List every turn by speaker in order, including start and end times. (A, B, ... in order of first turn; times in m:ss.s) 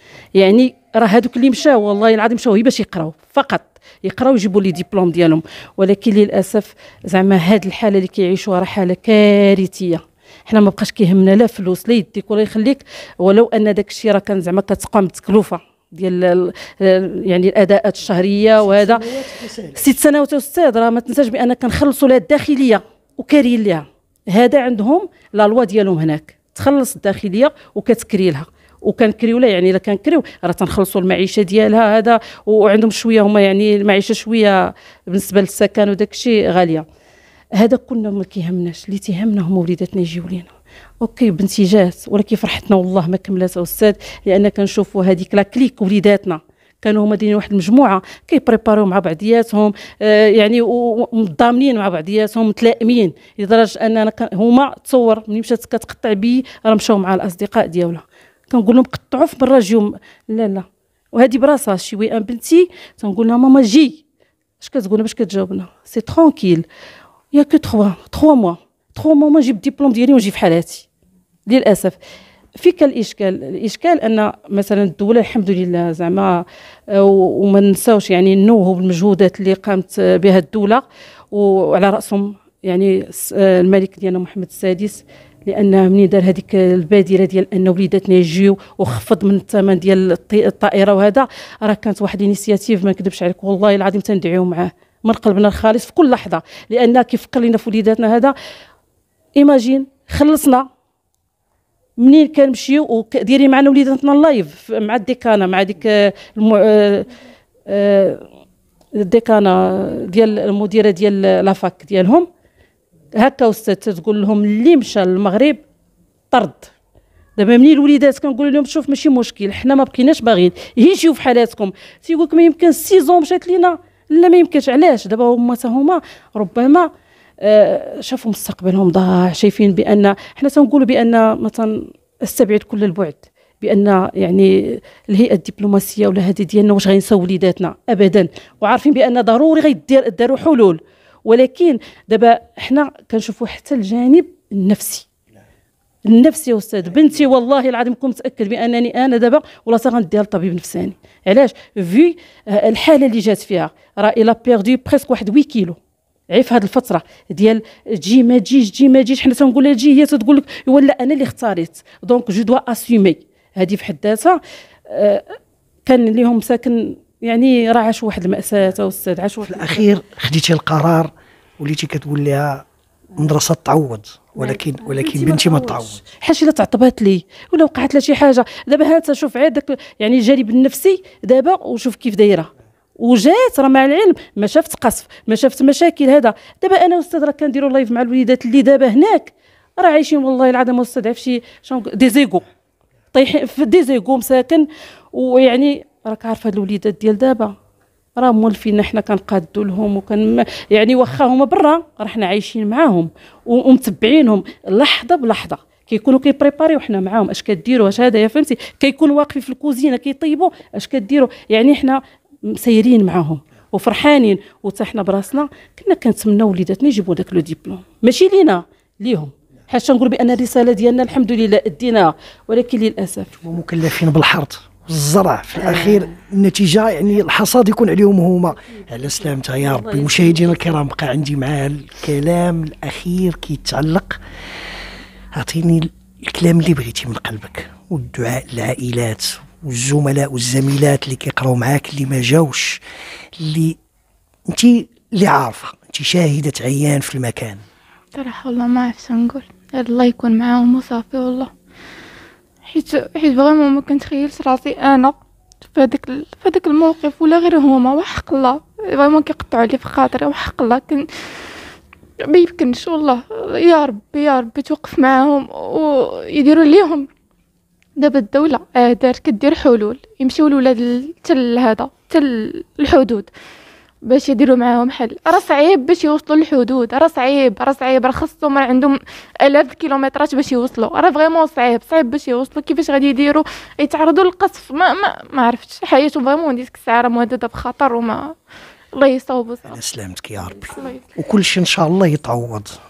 0:00.4-0:19.0 A
0:18.6-0:19.9 B
0:19.8-0:36.8 A
0:37.6-0:40.5 A
0:41.0-1:04.0 A
1:04.6-1:06.7 A
1:07.3-1:10.9 A
1:11.5-1:12.0 A
1:12.6-1:38.4 A
1:39.4-1:40.6 A
1:42.0-1:47.1 A
1:47.7-1:48.2 A
1:49.0-1:52.3 A
1:53.1-1:55.6 A
1:56.3-1:56.7 A
1:57.4-2:06.9 A
2:07.4-2:25.0 A
2:26.0-2:35.8 A
2:36.3-2:45.4 A
2:45.9-2:49.8 A
2:49.5-2:52.6 B
2:53.2-2:56.0 B
2:54.4-3:12.5 A
3:13.1-3:17.5 A
3:18.2-3:43.3 A
3:43.4-3:54.2 B
3:45.6-3:46.1 A
3:49.6-3:50.7 A
3:55.3-4:02.8 B
4:03.4-4:03.8 B
4:04.5-4:07.6 B
4:08.2-4:11.5 C
4:12.7-4:15.2 C
4:15.7-4:21.1 C
4:22.3-4:27.1 C
4:28.0-4:33.3 C
4:34.1-4:48.3 C
4:49.0-4:49.8 C
4:49.6-4:52.8 B
4:50.7-4:51.0 C